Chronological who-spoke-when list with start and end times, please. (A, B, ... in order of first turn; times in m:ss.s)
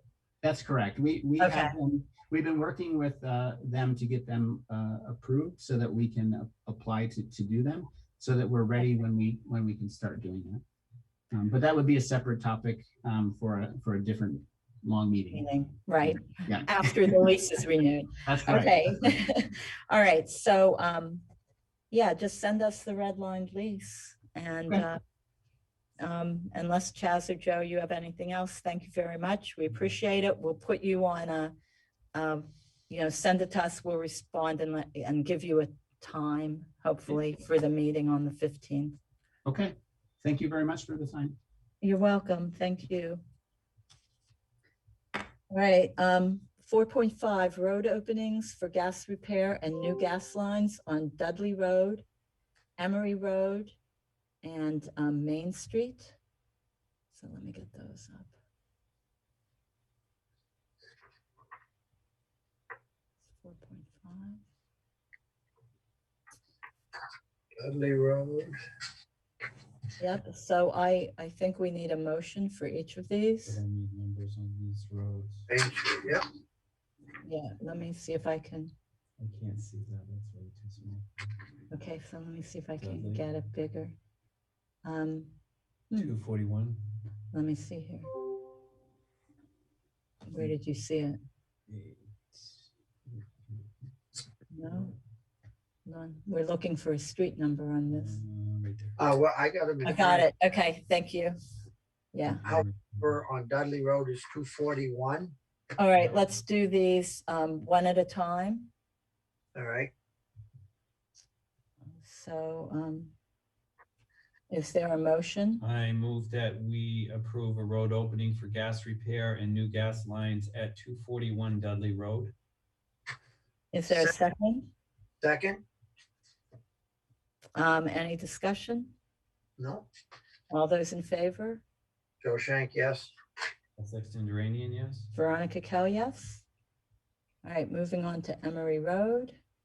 0:00.4-0:10.6 A
0:01.4-0:01.7 B
0:11.3-0:15.5 A
0:15.3-0:21.2 B
0:16.0-0:17.1 A
0:18.2-0:19.1 A
0:21.9-0:25.0 B
0:26.0-0:31.5 B
0:32.1-0:39.0 B
0:39.4-0:41.4 A
0:41.8-0:43.2 B
0:45.5-0:52.0 B
0:52.8-0:53.8 B
0:54.4-0:56.2 B
0:57.1-0:58.3 B
1:03.4-1:04.4 B
1:07.6-1:08.5 C
1:10.0-1:13.6 B
1:13.5-1:15.5 D
1:15.5-1:16.2 C
1:17.2-1:18.7 B
1:19.2-1:21.1 D
1:21.7-1:24.0 B
1:22.8-1:23.2 D
1:24.8-1:25.3 B
1:25.9-1:26.8 D
1:27.3-1:28.1 B
1:30.3-1:31.2 B
1:31.7-1:33.5 D
1:34.5-1:34.9 B
1:35.8-1:38.2 B
1:37.9-1:39.0 D
1:39.0-1:40.3 C
1:39.8-1:41.4 B
1:42.1-1:42.4 B
1:42.3-1:43.0 D
1:42.4-1:45.4 C
1:45.8-1:48.7 B
1:49.6-1:49.9 C
1:51.9-1:53.1 B
1:54.5-1:55.6 B
1:55.6-2:02.3 D
2:03.7-2:04.7 B
2:05.2-2:05.6 C
2:07.6-2:09.0 B
2:09.6-2:09.9 C
2:10.5-2:11.6 B
2:12.2-2:13.1 C
2:13.8-2:15.1 D
2:15.1-2:16.4 B
2:17.4-2:19.4 B